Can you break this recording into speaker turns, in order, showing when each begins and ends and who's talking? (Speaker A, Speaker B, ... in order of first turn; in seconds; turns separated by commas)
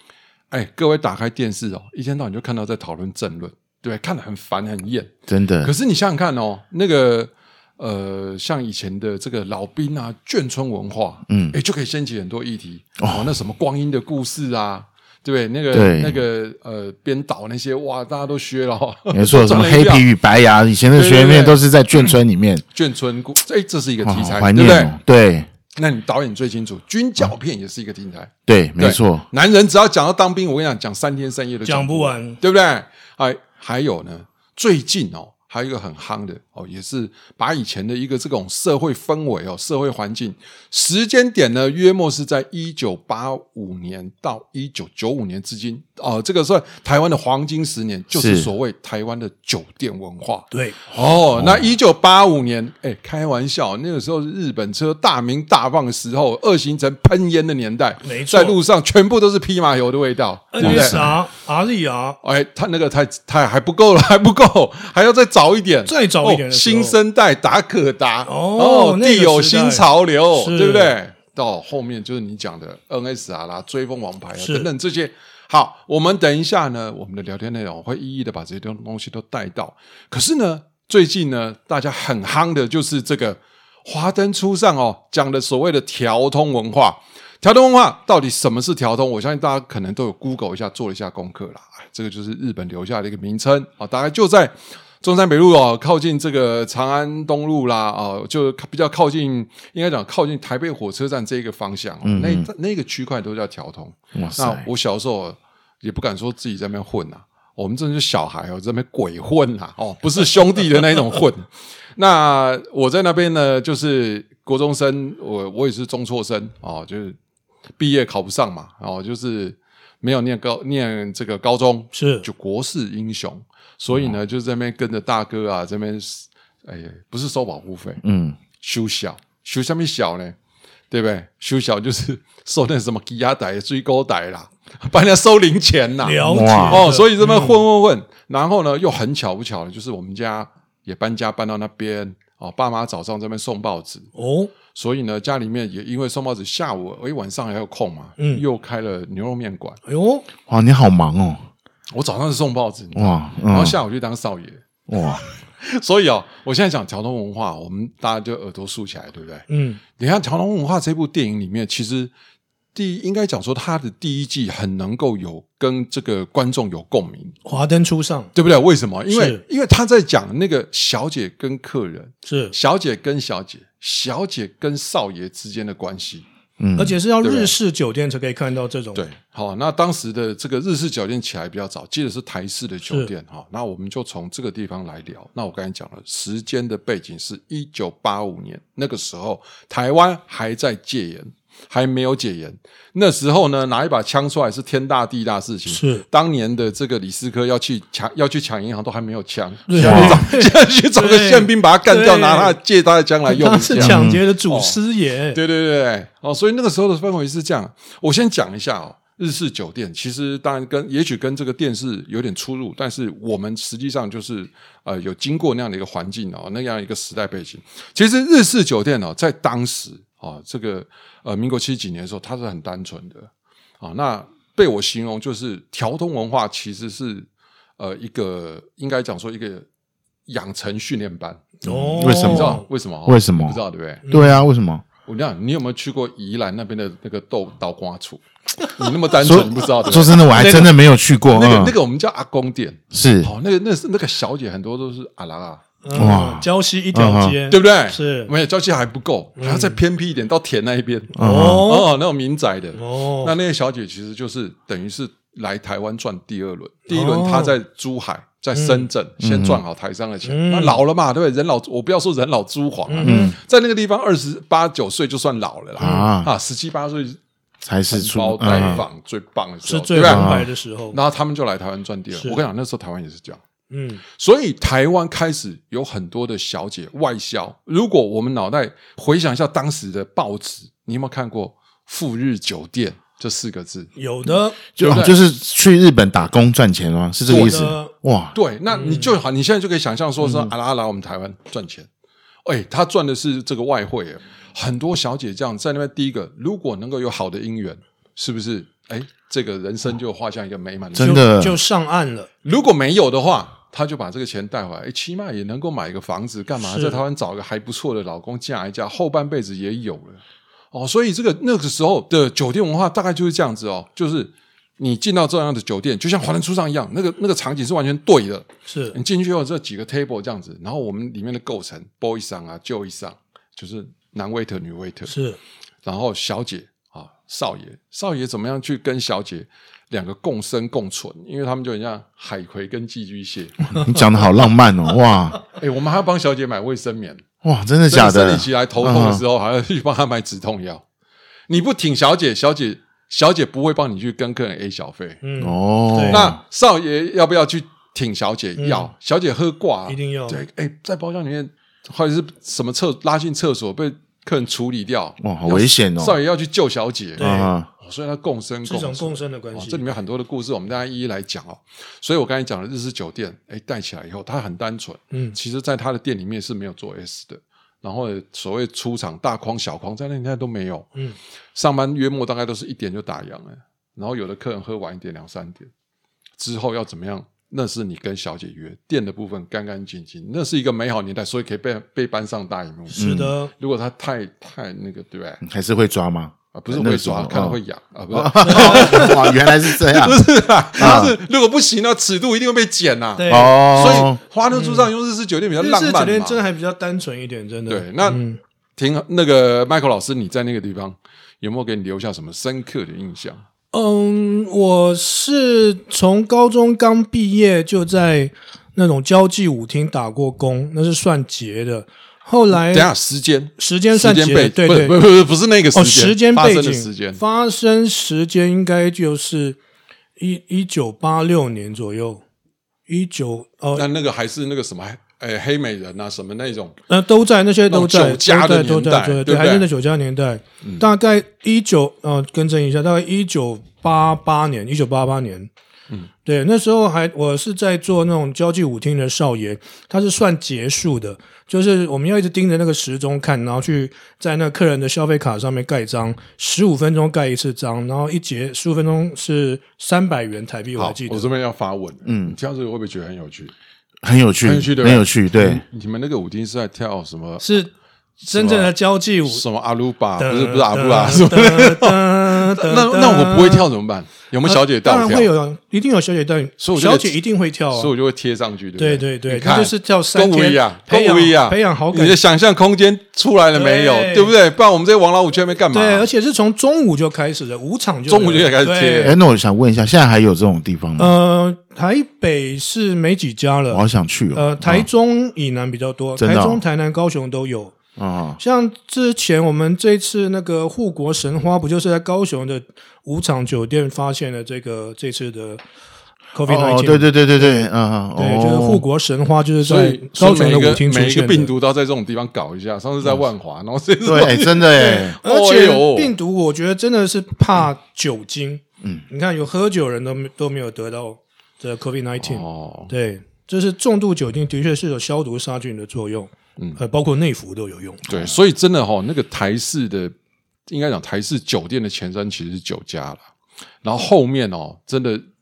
Speaker A: 0.5-20.1, Speaker B: 5.3-5.7, Speaker B: 11.3-11.6, Speaker B: 13.0-13.3, Speaker B: 15.7-16.2, Speaker B: 19.1-22.6, Speaker A: 20.9-22.1, Speaker A: 22.7-24.9, Speaker B: 24.0-25.5, Speaker A: 25.8-61.1, Speaker B: 28.5-29.2, Speaker C: 31.6-32.4, Speaker B: 48.1-48.5, Speaker C: 50.5-50.8, Speaker B: 51.4-51.7, Speaker C: 58.0-58.6, Speaker C: 60.5-62.2, Speaker B: 60.6-61.2, Speaker A: 62.2-117.2, Speaker C: 65.8-67.0, Speaker C: 68.2-70.9, Speaker C: 74.4-74.7, Speaker B: 102.0-102.5, Speaker B: 104.1-104.7, Speaker A: 117.8-128.0, Speaker C: 121.9-122.3, Speaker B: 128.0-128.4, Speaker A: 128.6-130.3, Speaker A: 130.9-144.1, Speaker C: 136.0-137.6, Speaker B: 136.2-136.9, Speaker C: 144.1-144.5, Speaker A: 144.7-149.8, Speaker C: 148.2-148.4, Speaker C: 149.8-150.2, Speaker B: 150.5-151.5, Speaker A: 151.9-159.4, Speaker B: 152.9-153.8, Speaker B: 154.9-155.2, Speaker C: 159.5-159.8, Speaker A: 160.0-162.1, Speaker A: 162.7-167.3, Speaker C: 167.4-168.3, Speaker A: 168.3-176.2, Speaker C: 169.1-169.4, Speaker C: 172.2-172.5, Speaker B: 176.6-177.0, Speaker C: 176.8-179.0, Speaker A: 177.2-177.5, Speaker A: 178.9-204.8, Speaker C: 195.7-196.0, Speaker C: 199.7-202.6, Speaker B: 199.8-200.2, Speaker C: 203.3-205.4, Speaker B: 203.7-204.2, Speaker A: 205.3-223.3, Speaker A: 223.8-227.3, Speaker A: 227.8-229.6, Speaker A: 230.3-234.1, Speaker C: 231.6-232.6, Speaker B: 231.7-234.8, Speaker C: 234.1-234.4, Speaker A: 235.0-240.8, Speaker B: 239.2-241.7, Speaker A: 241.3-246.1, Speaker B: 242.9-243.3, Speaker C: 245.8-248.3, Speaker B: 245.9-247.4, Speaker A: 247.5-267.2, Speaker C: 249.4-249.8, Speaker B: 251.2-251.7, Speaker C: 251.2-251.9, Speaker C: 252.7-253.3, Speaker C: 256.9-257.6, Speaker C: 258.5-258.9, Speaker B: 259.2-259.6, Speaker C: 260.2-260.8, Speaker C: 262.9-263.3, Speaker B: 263.0-263.3, Speaker B: 265.8-266.3, Speaker C: 265.8-266.1, Speaker B: 267.6-268.8, Speaker A: 267.9-270.3, Speaker C: 268.5-268.8, Speaker C: 269.6-271.0, Speaker B: 270.0-270.5, Speaker A: 270.9-273.4, Speaker C: 272.1-272.4, Speaker C: 273.7-274.0, Speaker A: 274.1-283.9, Speaker C: 283.9-284.6, Speaker A: 284.8-285.2, Speaker B: 284.8-288.3, Speaker A: 287.3-287.6, Speaker C: 287.3-287.9, Speaker A: 288.3-291.9, Speaker C: 288.7-289.1, Speaker B: 290.2-290.5, Speaker A: 292.4-301.2, Speaker B: 300.9-301.6, Speaker C: 301.0-302.3, Speaker A: 302.4-310.2, Speaker C: 306.6-307.0, Speaker A: 310.7-325.1, Speaker C: 318.6-318.9, Speaker C: 325.1-325.4, Speaker A: 325.8-333.7, Speaker B: 333.7-335.4, Speaker A: 335.6-337.2, Speaker B: 337.4-339.2, Speaker A: 337.9-340.8, Speaker A: 341.5-345.2, Speaker C: 345.2-346.3, Speaker B: 345.4-346.4, Speaker A: 346.1-370.9, Speaker C: 348.6-348.9, Speaker C: 349.9-350.4, Speaker B: 355.2-356.1, Speaker C: 357.2-357.5, Speaker B: 357.2-357.7, Speaker C: 358.6-359.9, Speaker C: 365.1-365.4, Speaker A: 371.5-375.7, Speaker A: 376.4-383.0, Speaker C: 382.9-383.5, Speaker B: 383.0-383.3, Speaker A: 383.6-385.4, Speaker B: 385.4-387.6, Speaker A: 386.5-396.4, Speaker B: 388.1-390.2, Speaker C: 388.4-389.1, Speaker B: 390.8-391.1, Speaker C: 390.8-391.1, Speaker C: 393.2-394.9, Speaker B: 393.3-394.2, Speaker C: 395.6-398.4, Speaker A: 397.7-398.2, Speaker A: 398.8-403.4, Speaker C: 403.7-412.9, Speaker A: 412.5-417.2, Speaker C: 413.6-415.0, Speaker C: 415.7-419.6, Speaker C: 420.2-422.2, Speaker C: 422.9-423.9, Speaker A: 423.8-426.8, Speaker C: 426.9-435.5, Speaker A: 427.7-429.7, Speaker C: 436.2-451.3, Speaker A: 450.8-453.5, Speaker B: 452.1-452.4, Speaker B: 454.0-455.6, Speaker A: 454.4-457.5, Speaker C: 457.4-457.7, Speaker C: 458.3-459.4, Speaker A: 458.3-465.3, Speaker C: 460.2-463.7, Speaker C: 464.4-467.9, Speaker A: 466.6-467.2, Speaker A: 467.7-476.1, Speaker C: 468.8-472.2, Speaker C: 473.5-474.3, Speaker C: 475.7-479.2, Speaker A: 478.1-479.2, Speaker B: 479.0-481.1, Speaker C: 481.0-487.7, Speaker B: 483.7-484.9, Speaker B: 486.2-486.6, Speaker B: 488.0-488.4, Speaker C: 488.4-495.6, Speaker C: 496.3-501.5, Speaker B: 496.4-498.8, Speaker A: 499.6-506.1, Speaker B: 504.0-505.2, Speaker C: 504.7-518.0, Speaker A: 512.2-512.9, Speaker A: 518.1-520.1, Speaker A: 520.7-523.2, Speaker A: 523.8-525.2